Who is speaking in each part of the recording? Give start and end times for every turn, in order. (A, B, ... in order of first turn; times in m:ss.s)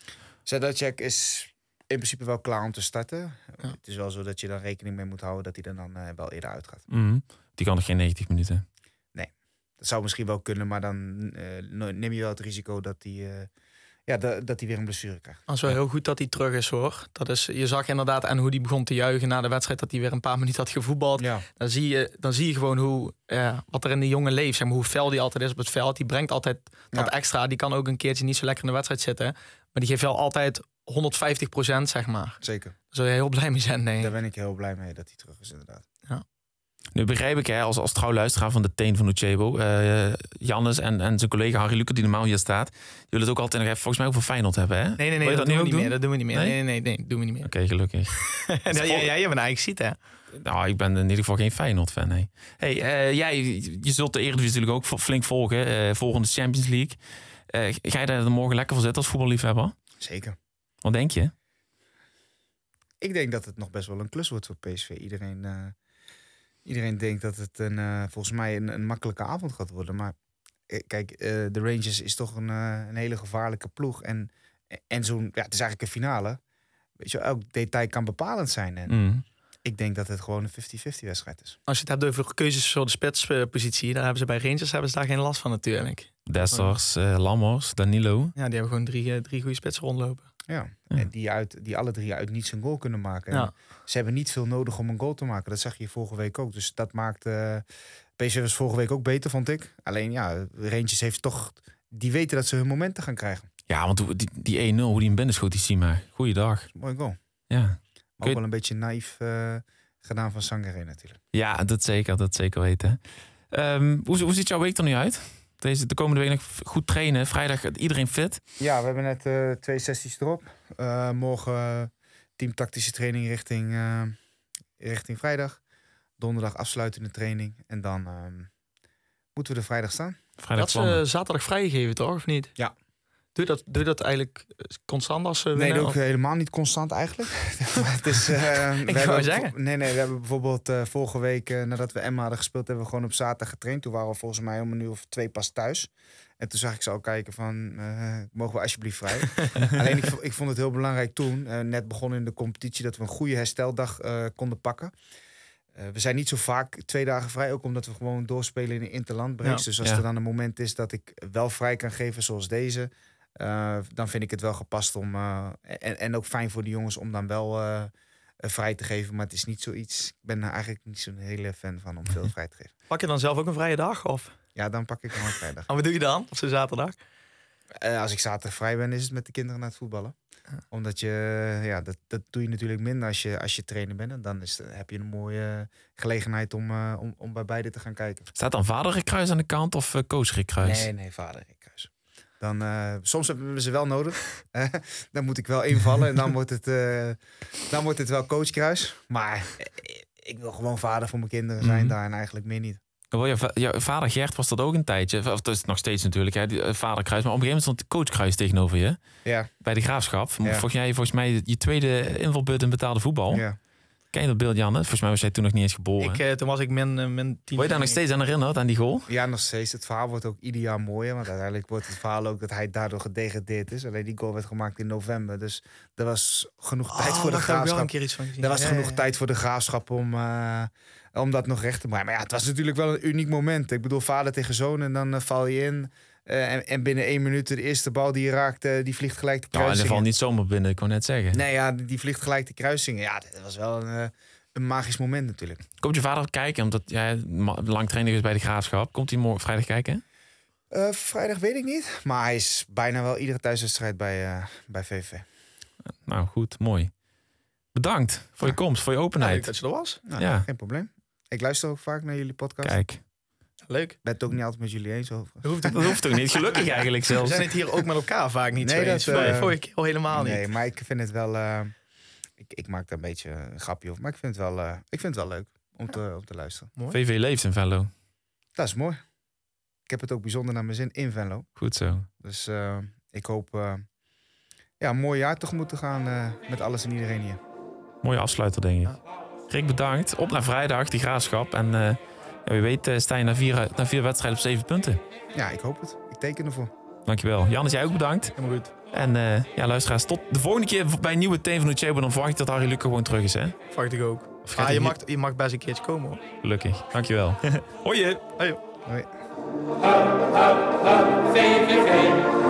0:00.4-0:06.8 A
0:06.9-0:08.6 B
0:09.1-0:13.5 A
0:14.1-0:15.4 A
0:15.5-0:34.1 C
0:21.2-0:21.4 A
0:32.4-0:32.7 A
0:34.0-0:35.8 A
0:36.9-0:46.6 B
0:45.0-0:47.5 C
0:47.4-0:49.1 B
0:48.1-0:50.0 C
0:50.3-0:57.0 B
0:57.5-0:59.7 B
1:00.0-1:00.4 A
1:00.8-1:01.3 B
1:03.0-1:05.8 A
1:06.6-1:10.1 A
1:10.7-1:16.4 A
1:17.0-1:19.0 A
1:18.9-1:19.2 B
1:19.6-1:21.6 A
1:21.7-1:26.7 C
1:26.3-1:28.3 B
1:28.4-1:30.3 C
1:30.5-1:37.6 A
1:38.2-1:43.5 A
1:43.7-1:46.7 B
1:46.7-1:47.2 A
1:47.5-1:48.4 B
1:48.2-1:51.2 A
1:51.3-1:53.0 B
1:53.5-1:58.4 B
1:58.6-2:04.2 A
2:04.8-2:05.6 A
2:06.2-2:08.5 A
2:09.3-2:10.2 A
2:10.4-2:11.0 B
2:10.6-2:12.5 C
2:13.3-2:16.0 C
2:15.5-2:34.9 A
2:18.8-2:19.5 C
2:29.4-2:29.7 C
2:35.7-2:52.7 A
2:52.9-2:54.4 C
2:54.6-2:55.7 A
2:55.7-2:57.0 C
2:57.8-3:00.1 A
3:00.7-3:08.3 A
3:08.4-3:10.9 B
3:10.6-3:22.8 A
3:21.6-3:22.0 B
3:23.1-3:29.0 B
3:29.2-3:29.5 A
3:29.6-3:33.5 B
3:33.3-3:33.6 A
3:34.1-3:36.2 B
3:36.0-3:38.0 C
3:37.6-3:39.1 B
3:39.1-4:00.1 A
3:46.9-3:49.0 C
3:59.5-4:01.4 B
4:01.3-4:05.6 A
4:05.8-4:10.0 B
4:10.7-4:15.2 A
4:16.0-4:16.9 B
4:17.7-4:19.5 B
4:19.2-4:20.0 C
4:20.1-4:22.8 A
4:20.1-4:20.4 B
4:22.6-4:23.0 B
4:23.7-4:24.0 C
4:24.0-4:25.9 A
4:25.4-4:30.5 C
4:25.7-4:27.5 B
4:28.6-4:31.7 A
4:32.4-4:36.7 A
4:36.9-4:37.9 B
4:38.6-4:39.0 A
4:39.9-4:41.5 A
4:41.6-4:42.1 B
4:42.2-4:43.8 A
4:44.8-4:47.4 A
4:48.0-4:55.0 B
4:55.3-4:56.7 A
4:57.0-4:58.3 B
4:58.3-4:58.7 C
4:58.9-5:03.6 B
5:03.7-5:06.2 C
5:04.4-5:04.9 B
5:06.4-5:08.2 B
5:08.3-5:08.6 C
5:08.8-5:09.1 A